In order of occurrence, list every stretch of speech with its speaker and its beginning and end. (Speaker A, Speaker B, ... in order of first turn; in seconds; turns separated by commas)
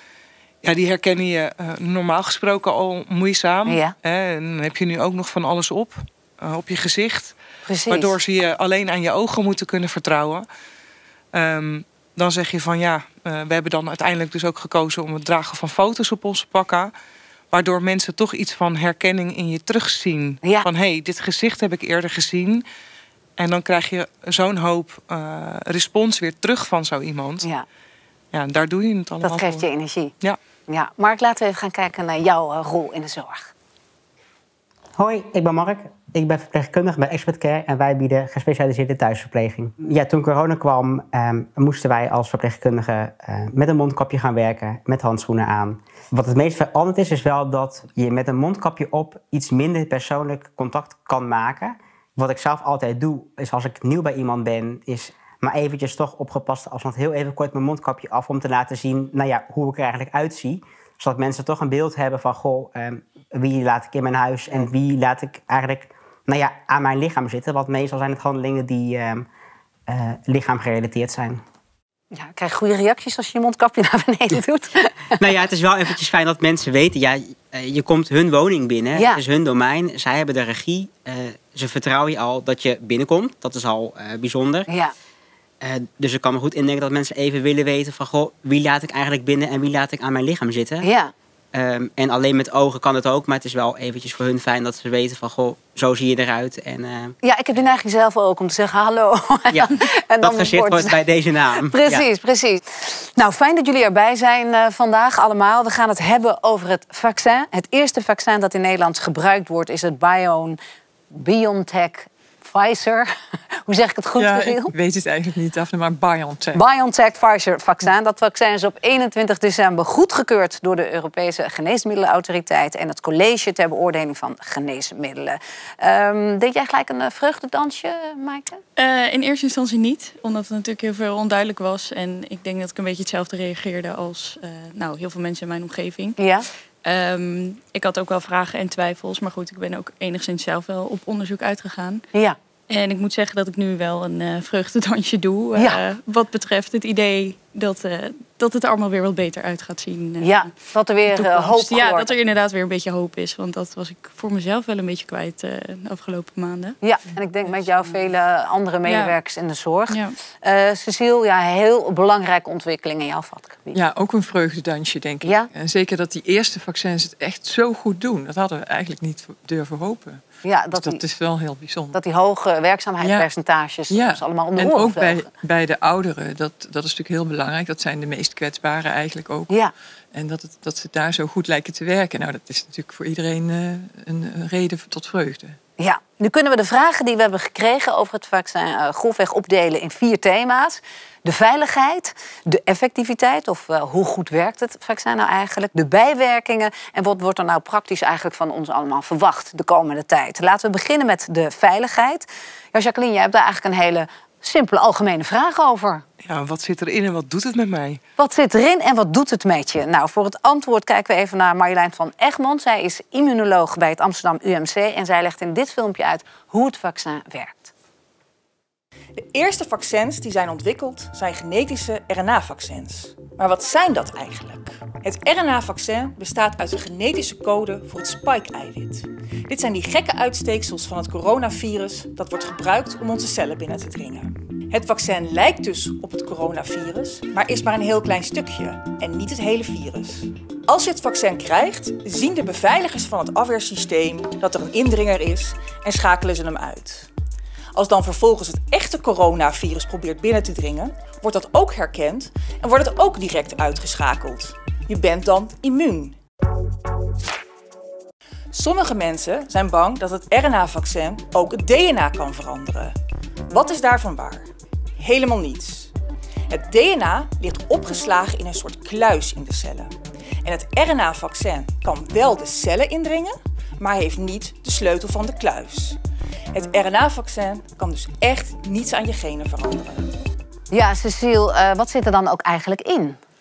Speaker A: 0.6-7.3, Speaker B: 3.7-3.9, Speaker B: 7.7-8.1, Speaker A: 7.9-10.4, Speaker A: 11.3-16.9, Speaker A: 17.5-22.6, Speaker A: 23.4-27.5, Speaker A: 28.3-29.6, Speaker B: 29.2-30.1, Speaker B: 30.7-33.5, Speaker C: 35.0-69.3, Speaker C: 69.9-71.4, Speaker B: 72.1-75.2, Speaker C: 75.2-84.7, Speaker B: 79.0-79.2, Speaker B: 84.7-84.9, Speaker C: 85.6-90.9, Speaker B: 90.8-91.1, Speaker C: 91.5-97.2, Speaker B: 97.2-101.0, Speaker C: 99.5-102.0, Speaker B: 101.6-110.6, Speaker B: 111.1-113.1, Speaker B: 113.7-114.7, Speaker D: 114.2-116.6, Speaker B: 116.5-128.6, Speaker E: 128.8-136.2, Speaker B: 136.2-136.5, Speaker E: 136.8-142.0, Speaker E: 142.7-150.4, Speaker B: 150.2-152.1, Speaker E: 151.1-156.8, Speaker B: 156.8-163.8, Speaker E: 158.8-159.1, Speaker E: 159.9-160.1, Speaker D: 163.7-170.2, Speaker B: 165.2-165.5, Speaker B: 170.4-171.0, Speaker D: 170.7-171.9, Speaker B: 171.9-175.2, Speaker D: 173.0-173.2, Speaker D: 173.9-179.5, Speaker D: 180.1-185.6, Speaker B: 185.8-206.0, Speaker A: 206.2-208.0, Speaker B: 208.2-217.7, Speaker F: 219.1-247.1, Speaker F: 247.7-256.2, Speaker F: 258.5-262.9, Speaker F: 263.5-265.9, Speaker F: 266.5-276.0, Speaker F: 276.5-280.1, Speaker B: 280.7-283.2